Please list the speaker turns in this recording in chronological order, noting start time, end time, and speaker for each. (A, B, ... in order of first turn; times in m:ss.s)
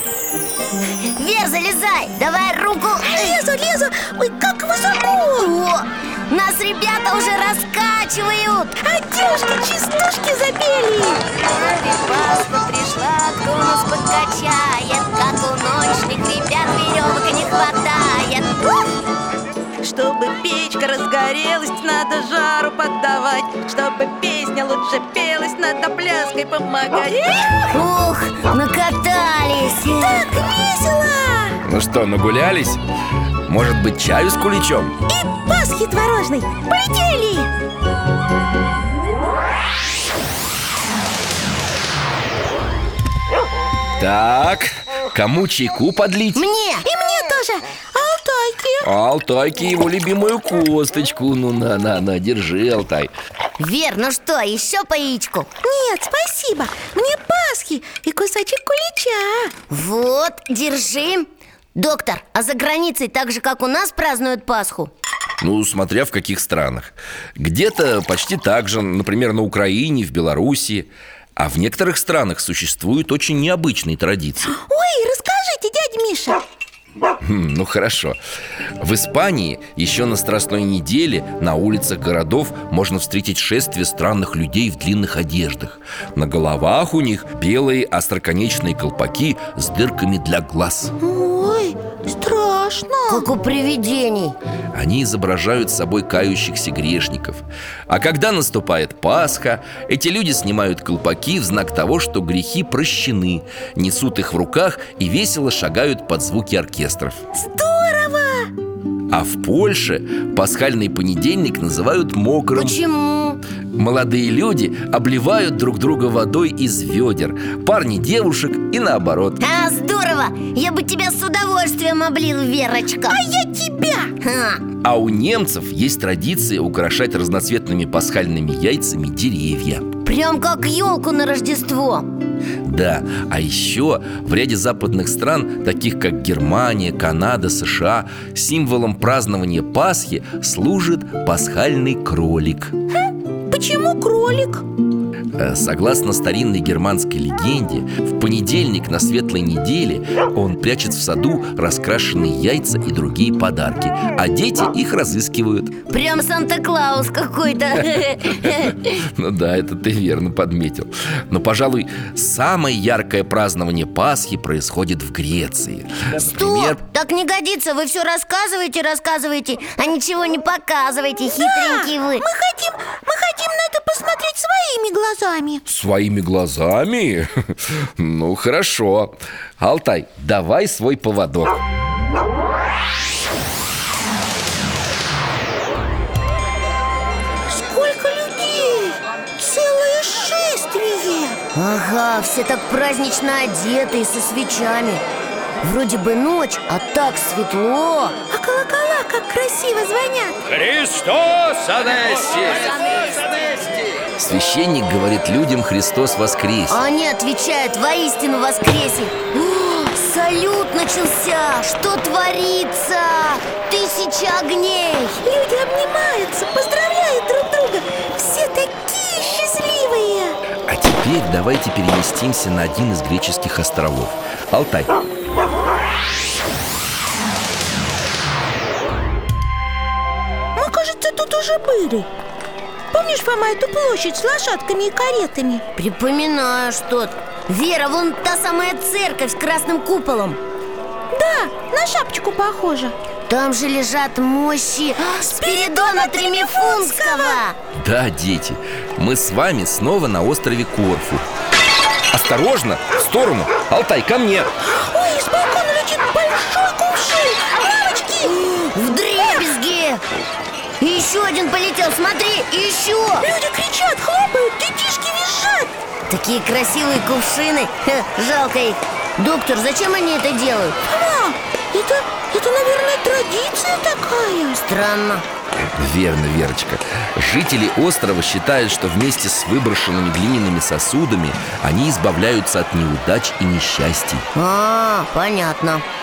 0:01.0-0:03.4 A
0:03.0-0:05.5 B
0:05.2-0:08.8 A
0:08.8-0:11.2 B
0:11.3-0:18.7 A
0:19.8-0:27.5 C
0:27.1-0:27.6 B
0:27.7-0:30.3 A
0:30.0-0:31.6 B
0:31.6-0:32.8 D
0:33.5-0:34.9 D
0:35.1-0:37.5 B
0:44.0-0:46.5 D
0:46.3-0:46.9 A
0:46.8-0:48.9 B
0:48.8-0:53.1 D
0:53.6-0:55.5 A
0:55.6-0:59.5 B
0:59.7-1:04.9 A
1:05.4-1:14.6 D
1:14.6-1:16.4 B
1:17.2-1:18.2 D
1:18.8-1:30.9 D
1:31.0-1:33.3 B
1:33.1-1:34.4 A
1:34.7-1:47.2 D
1:47.3-1:48.5 B
1:49.1-1:52.8 D
1:52.5-1:53.4 A
1:53.7-1:59.4 D
1:59.4-2:03.2 A
2:03.1-2:04.1 B
2:04.2-2:04.6 A
2:04.8-2:09.9 D
2:10.0-2:12.1 A
2:12.6-2:22.8 D
2:23.5-2:24.6 B
2:25.4-2:35.7 D
2:35.9-2:38.9 A
2:38.4-2:46.8 D
2:46.1-2:52.2 A
2:51.4-2:55.6 B
2:55.7-3:01.6 D
3:07.5-3:11.4 B
3:11.5-3:15.0 A
3:15.6-3:18.1 A
3:18.3-3:20.4 B
3:20.5-3:24.0 E
3:24.2-3:26.8 D
3:26.7-3:35.2 A
3:35.2-3:40.4 B
3:40.7-3:45.0 D
3:50.6-3:52.1 B
3:52.9-3:55.6 B
3:55.8-4:00.4 A
4:01.1-4:02.9 B
4:03.3-4:07.6 A
4:05.2-4:07.4 B
4:07.8-4:11.2 D
4:12.1-4:14.5 D
4:14.6-4:18.5 B
4:18.6-4:20.0 A
4:20.8-4:23.3 A
4:23.2-4:25.7 B
4:26.1-4:30.8 A
4:30.9-4:34.6 B
4:34.6-4:35.2 A
4:35.6-4:44.2 D
4:44.3-4:45.8 A